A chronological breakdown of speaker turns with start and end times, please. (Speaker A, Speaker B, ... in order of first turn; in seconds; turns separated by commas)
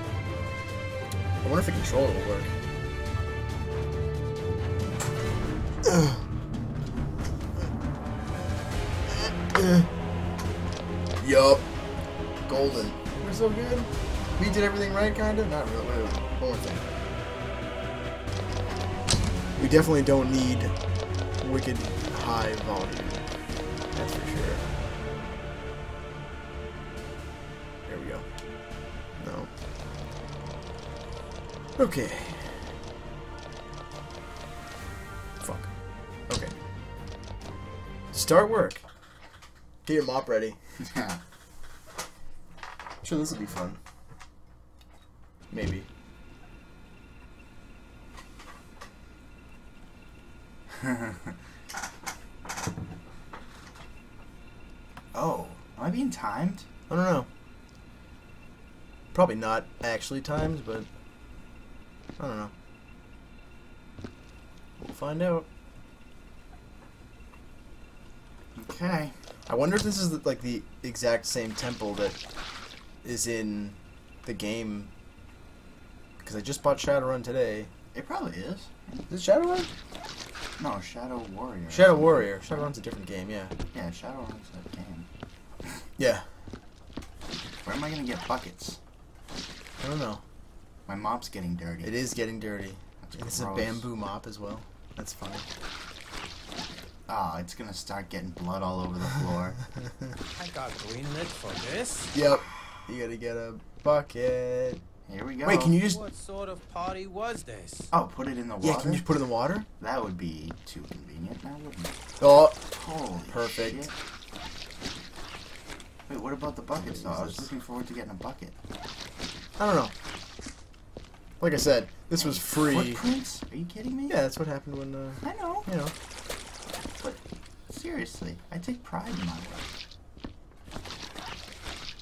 Speaker A: 1.4-2.5, Speaker A: 5.8-6.2, Speaker A: 9.1-9.9, Speaker A: 11.2-11.6, Speaker A: 12.5-16.8, Speaker A: 19.6-20.7, Speaker A: 21.4-23.2, Speaker A: 23.9-24.6, Speaker A: 27.9-28.2, Speaker A: 29.2-29.5, Speaker A: 31.8-32.6, Speaker A: 35.4-35.7, Speaker A: 38.1-38.8, Speaker A: 39.8-40.6, Speaker B: 40.8-41.2, Speaker A: 43.0-43.8, Speaker A: 45.5-45.9, Speaker B: 50.8-51.3, Speaker B: 55.1-56.6, Speaker A: 56.9-57.3, Speaker A: 59.1-60.9, Speaker A: 62.2-62.5, Speaker A: 64.8-65.5, Speaker B: 68.5-69.1, Speaker A: 69.5-72.2, Speaker A: 73.0-74.9, Speaker A: 76.2-77.7, Speaker B: 77.9-79.1, Speaker A: 79.1-79.7, Speaker B: 80.6-82.3, Speaker A: 81.7-83.5, Speaker B: 83.7-85.1, Speaker A: 86.0-86.3, Speaker B: 87.6-88.8, Speaker A: 89.8-90.2, Speaker B: 90.8-91.9, Speaker A: 91.8-95.5, Speaker B: 93.0-93.8, Speaker B: 97.1-99.6, Speaker C: 100.3-102.1, Speaker A: 102.1-104.8, Speaker B: 105.1-105.8, Speaker A: 105.4-106.0, Speaker C: 105.7-107.9, Speaker B: 107.9-109.0, Speaker A: 108.6-109.7, Speaker B: 109.8-112.0, Speaker A: 112.2-112.6, Speaker B: 112.6-113.9, Speaker A: 113.3-113.9, Speaker B: 116.1-118.5, Speaker A: 116.8-117.5, Speaker A: 119.6-119.9, Speaker A: 121.4-123.1, Speaker B: 122.2-124.2, Speaker A: 124.1-125.9, Speaker B: 125.2-125.7, Speaker B: 127.0-129.7